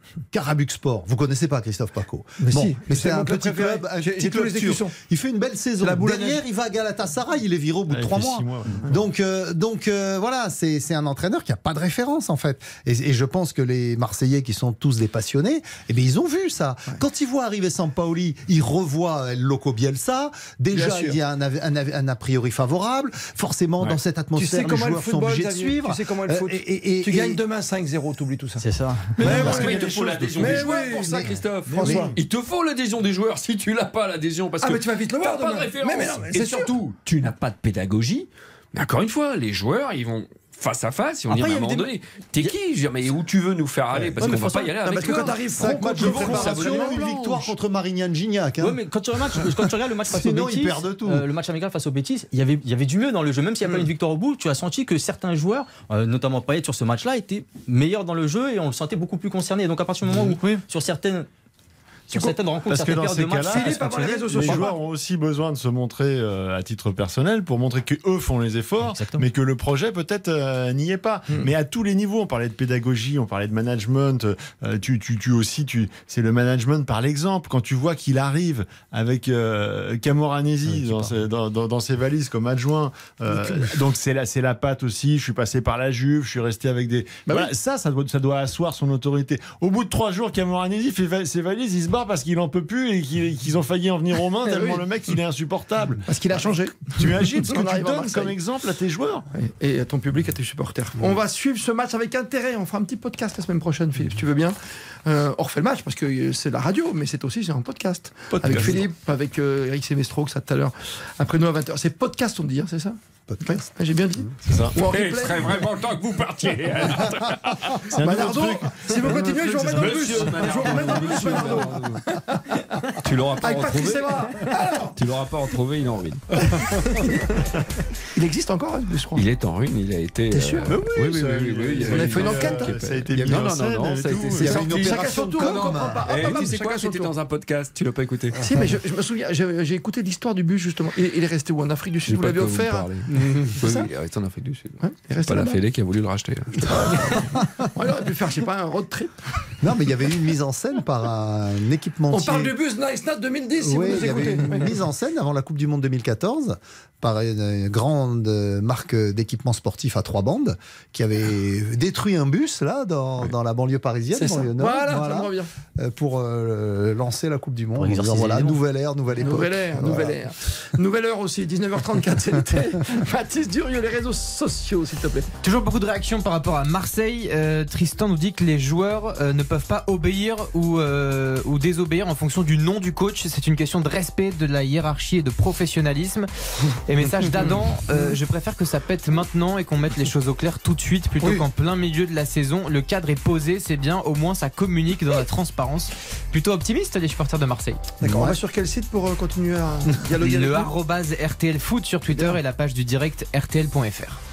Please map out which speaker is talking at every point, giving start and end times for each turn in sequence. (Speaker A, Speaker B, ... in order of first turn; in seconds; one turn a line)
Speaker A: 0.3-27.4
Speaker B: 2.4-5.0
Speaker B: 5.8-6.4
Speaker C: 7.9-8.9
Speaker B: 20.7-21.2
Speaker B: 24.4-28.6
Speaker D: 28.6-29.1
Speaker B: 29.2-32.1
Speaker E: 29.2-47.5
Speaker C: 29.2-30.7
Speaker A: 31.7-32.1
Speaker B: 34.6-36.7
Speaker D: 41.3-42.5
Speaker B: 44.2-47.0
Speaker D: 44.2-44.7
Speaker A: 45.6-48.8
Speaker D: 48.6-61.3
Speaker A: 50.1-51.3
Speaker D: 62.1-64.7
Speaker B: 62.1-62.4
Speaker C: 62.7-99.3
Speaker B: 63.4-64.8
Speaker D: 68.9-69.3
Speaker B: 87.3-87.5
Speaker B: 94.4-94.9
Speaker B: 96.1-98.4
Speaker B: 99.3-115.7
Speaker E: 108.4-108.8
Speaker A: 113.3-113.6
Speaker C: 114.5-114.8
Speaker E: 114.5-117.9
Speaker C: 117.9-120.2
Speaker B: 118.0-122.9
Speaker E: 119.3-122.0
Speaker E: 122.9-124.5
Speaker B: 123.4-125.0
Speaker E: 125.0-126.9
Speaker B: 126.6-127.4
Speaker B: 128.2-129.3
Speaker E: 129.1-138.4
Speaker B: 130.3-132.9
Speaker C: 130.7-134.7
Speaker A: 133.1-133.5
Speaker A: 134.3-136.3
Speaker B: 134.5-137.1
Speaker B: 138.4-143.9
Speaker E: 142.1-147.2
Speaker B: 144.8-145.6
Speaker B: 146.6-149.3
Speaker A: 149.6-152.5
Speaker B: 152.1-154.8
Speaker A: 153.6-170.2
Speaker B: 164.1-165.5
Speaker D: 167.8-168.6
Speaker B: 169.2-175.3
Speaker F: 175.4-186.3
Speaker F: 186.9-197.9
Speaker B: 187.4-188.1
Speaker B: 198.0-200.7
Speaker A: 198.0-198.4
Speaker F: 200.2-204.2
Speaker B: 202.1-202.4